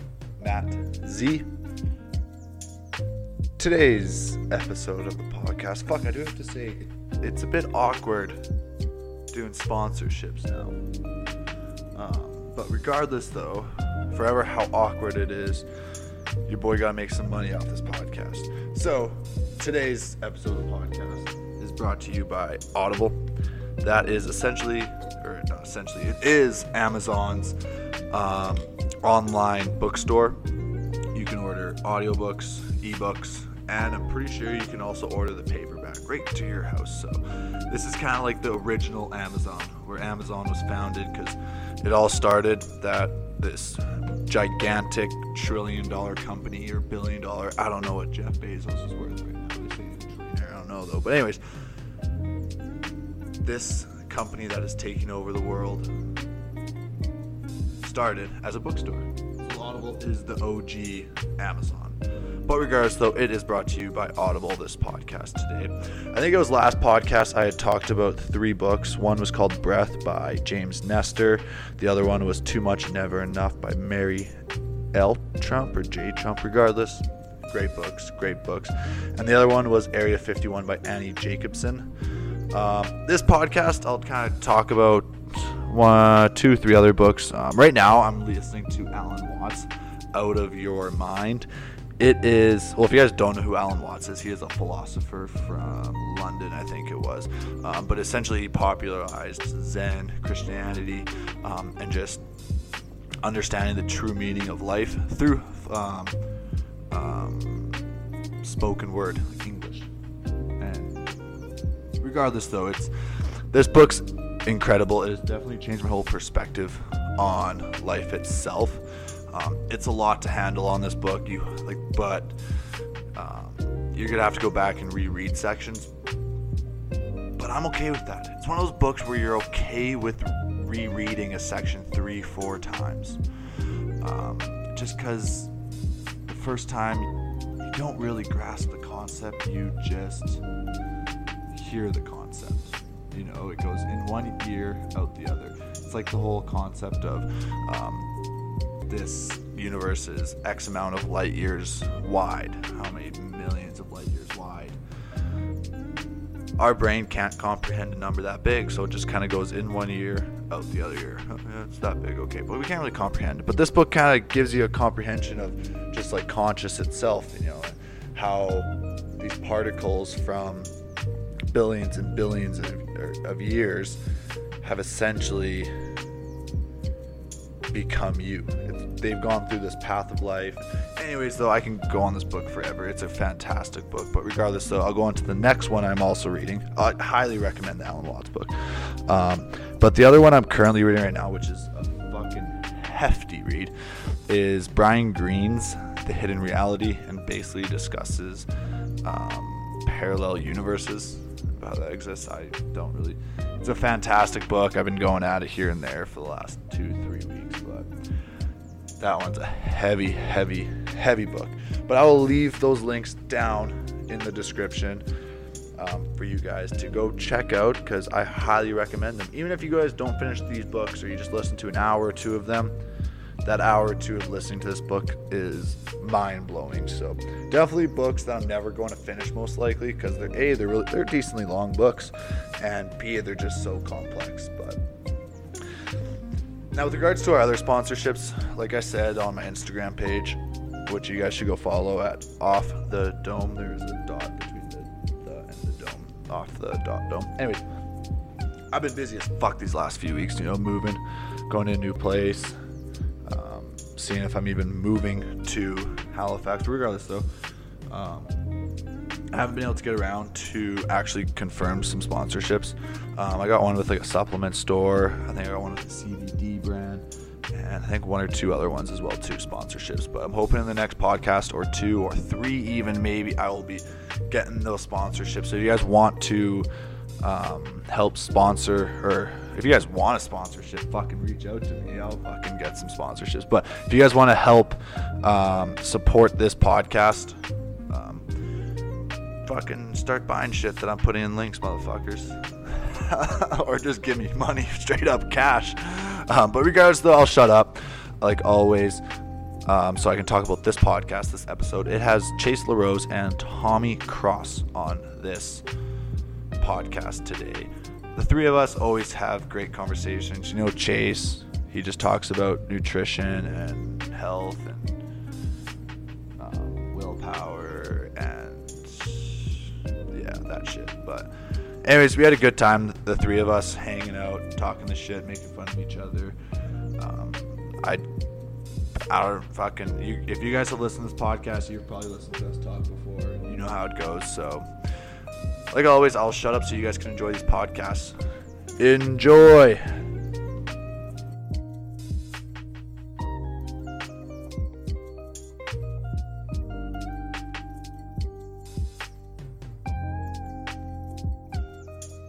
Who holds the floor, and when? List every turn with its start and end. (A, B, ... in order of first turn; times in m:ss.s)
0:00.4-0:01.4 A
0:03.6-0:08.4 A
0:09.3-0:10.8 A
0:12.0-0:15.6 A
0:16.5-0:23.2 A
0:23.8-0:27.5 A
0:28.1-0:30.4 A
0:31.1-0:51.4 A
0:53.4-0:55.8 A
0:57.8-1:02.0 A
1:02.5-1:14.3 A
1:14.9-1:21.9 A
1:22.5-1:31.5 A
1:32.0-1:42.2 A
1:43.2-1:46.1 A
1:46.9-1:47.8 A
1:48.4-1:49.9 A
1:50.6-1:51.0 A
1:52.0-1:52.9 A
1:53.5-1:58.8 A
1:59.3-2:02.3 A
2:03.2-2:05.9 A
2:07.4-2:13.2 A
2:14.0-2:15.5 A
2:16.3-2:17.1 A
2:17.7-2:20.4 A
2:21.5-2:28.1 A
2:28.9-2:34.8 A
2:36.6-2:50.7 A
2:51.5-2:54.0 A
2:54.6-2:55.7 A
2:57.7-3:08.5 A
3:09.1-3:13.7 A
3:14.3-3:18.4 A
3:19.0-3:27.9 A
3:29.0-3:35.0 A
3:35.8-3:42.7 A
3:43.4-3:54.8 A
3:56.7-4:07.6 A
4:08.7-4:12.5 A
4:13.3-4:17.2 A
4:17.9-4:18.4 A
4:19.3-4:36.7 A
4:37.2-4:47.4 A
4:47.9-4:48.2 A
4:49.5-4:52.3 A
4:53.1-4:59.0 A
4:59.7-5:05.6 A
5:06.6-5:14.9 A
5:16.4-5:19.4 A
5:20.1-5:21.3 A
5:21.8-5:26.3 A
5:27.0-5:28.0 A
5:29.1-5:34.6 A
5:35.7-5:38.1 A
5:38.8-5:39.8 A